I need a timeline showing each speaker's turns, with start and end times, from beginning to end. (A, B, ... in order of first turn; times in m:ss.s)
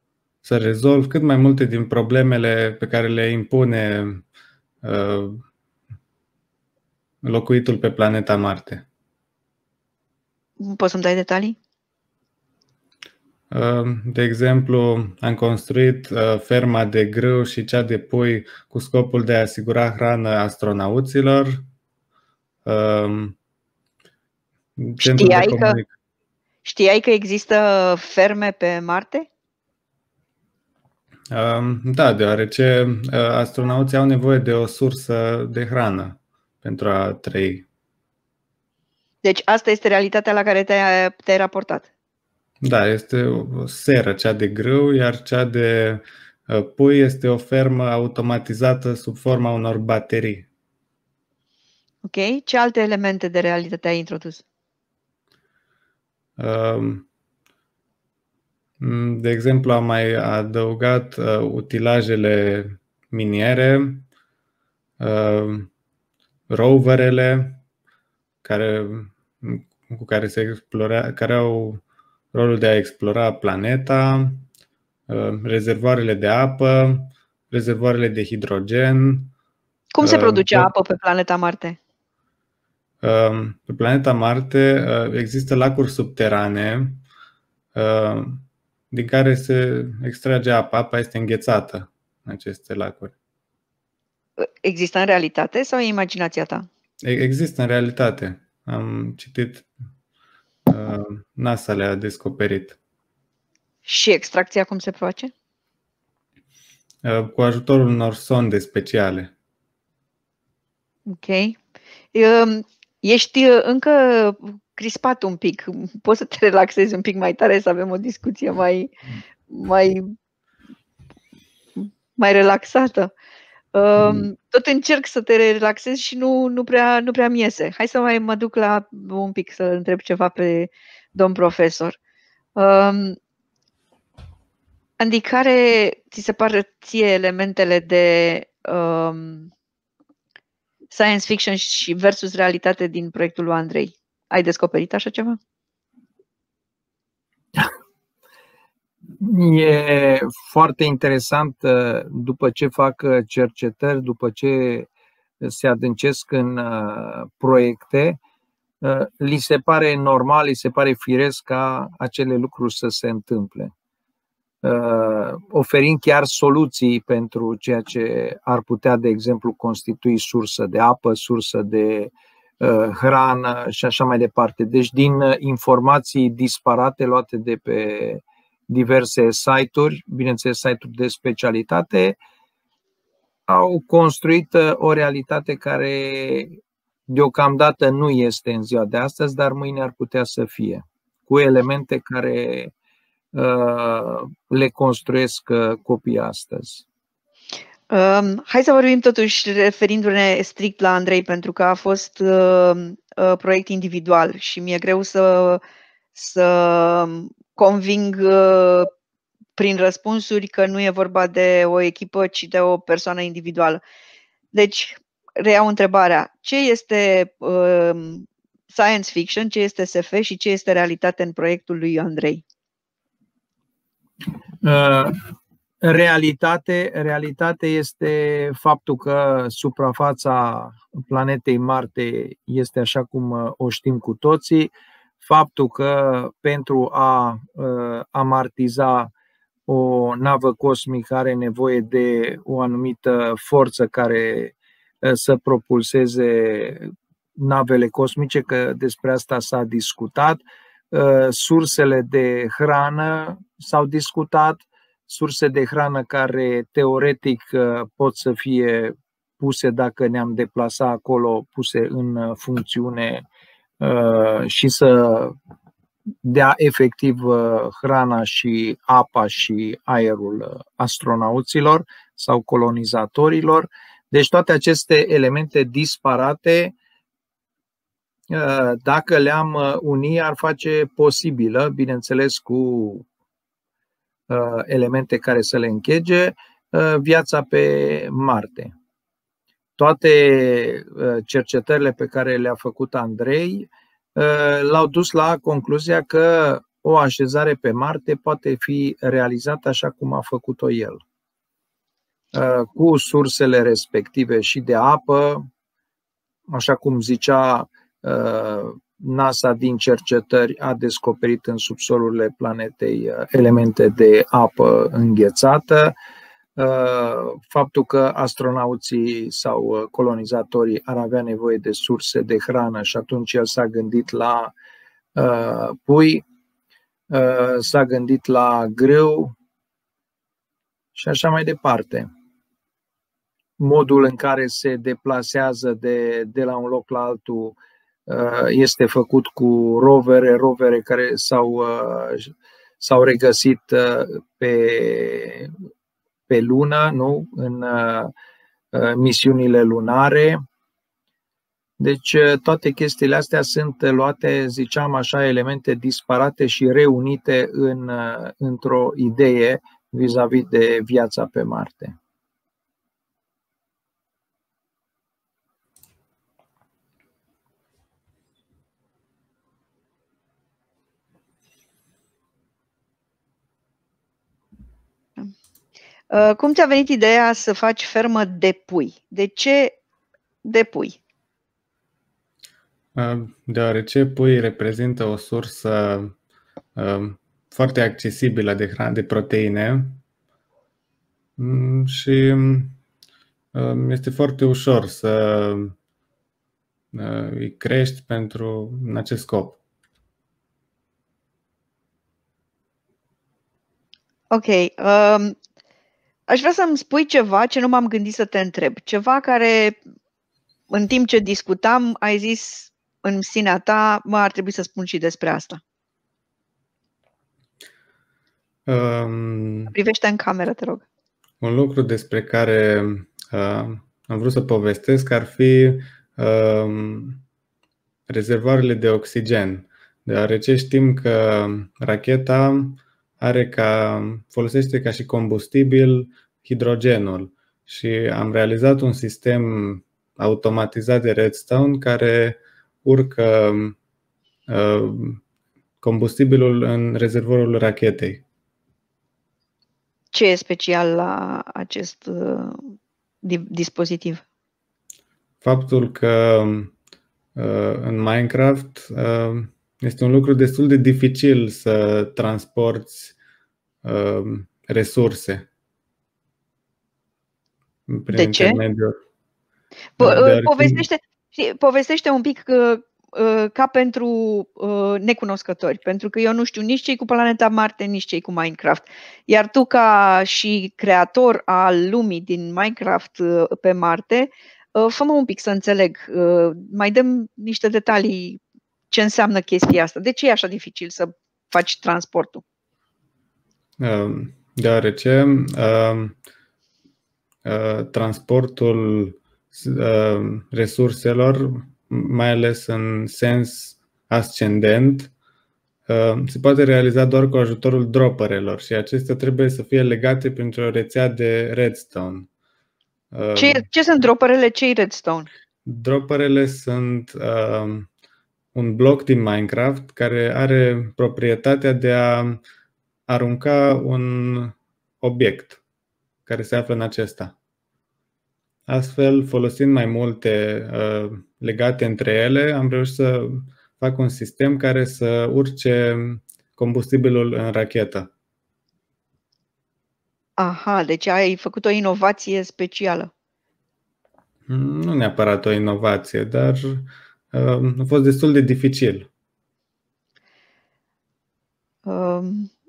0:00.4-0:04.2 A
0:04.8-0:05.4 A
0:07.2-0:08.8 A
0:10.6-0:11.6 B
0:13.5-0:21.6 A
0:22.6-0:23.4 A
0:24.8-0:25.9 A
0:25.0-0:25.8 B
0:26.6-0:29.3 B
0:31.3-0:37.7 A
0:39.2-0:41.9 B
0:42.6-0:50.5 A
0:52.0-0:54.4 B
0:56.4-0:57.1 A
0:58.8-1:04.1 A
1:05.0-1:05.7 A
1:06.5-1:07.6 A
1:08.4-1:11.8 A
1:12.3-1:14.5 A
1:15.1-1:19.3 A
1:19.9-1:21.8 B
1:20.0-1:20.7 A
1:23.0-1:27.0 A
1:27.8-1:33.1 A
1:34.4-1:36.7 B
1:37.0-1:39.7 A
1:40.7-1:42.8 A
1:43.8-1:45.3 B
1:47.0-1:49.3 A
1:51.1-1:51.6 B
1:52.1-1:58.9 B
1:59.5-2:00.1 B
2:01.8-2:03.1 B
2:03.7-2:12.0 B
2:12.6-2:13.2 B
2:15.0-2:19.5 B
2:20.9-2:25.4 B
2:29.2-2:34.9 C
2:35.4-2:38.2 C
2:38.8-2:43.7 C
2:44.6-3:02.2 C
3:03.5-3:12.7 C
3:13.3-3:16.8 C
3:17.9-3:25.6 B
3:26.2-3:28.9 B
3:29.6-3:33.8 B
3:34.5-3:42.4 B
3:44.6-3:45.2 C
3:45.8-3:59.1 C
3:59.7-4:23.2 C
4:23.8-4:25.4 C
4:26.2-4:36.8 C
4:38.3-4:43.1 C
4:44.3-4:48.7 C
4:49.8-5:01.0 C
5:02.3-5:05.5 C
5:06.5-5:16.0 C
5:16.6-5:24.5 C
5:25.2-5:26.2 C
5:27.1-5:29.4 C
5:31.0-5:32.1 C
5:33.6-5:37.6 C
5:38.1-5:45.5 C
5:46.3-5:48.1 C
5:48.7-5:50.4 C
5:51.8-6:02.0 C
6:16.1-6:19.8 B
6:20.4-6:21.0 B
6:23.0-6:26.1 A
6:26.8-6:30.0 A
6:31.4-6:32.8 A
6:33.5-6:35.8 A
6:36.9-6:39.6 A
6:44.3-6:45.4 B
6:46.3-6:49.8 B
6:50.7-6:55.6 B
6:58.7-6:59.7 A
6:59.7-7:00.8 B
7:01.4-7:07.2 A
7:08.1-7:23.8 A
7:24.5-7:25.2 A
7:25.8-7:28.2 A
7:30.1-7:32.7 B
7:33.2-7:34.2 B
7:35.4-7:36.7 A
7:37.4-7:43.1 A
7:43.8-7:45.5 A
7:47.9-7:49.0 A
7:48.1-7:48.6 B
7:50.0-8:08.4 B
7:50.0-7:50.9 A
8:08.9-8:12.4 B
8:13.8-8:16.2 A
8:17.4-8:25.1 A
8:25.9-8:32.3 A
8:33.1-8:33.7 A
8:33.4-8:35.3 B
8:35.6-8:37.9 A
8:38.5-8:42.4 A
8:43.1-8:45.6 A
8:46.3-8:47.3 A
8:48.7-8:58.1 A
9:00.4-9:03.1 B
9:04.5-9:09.1 A
9:11.9-9:12.5 B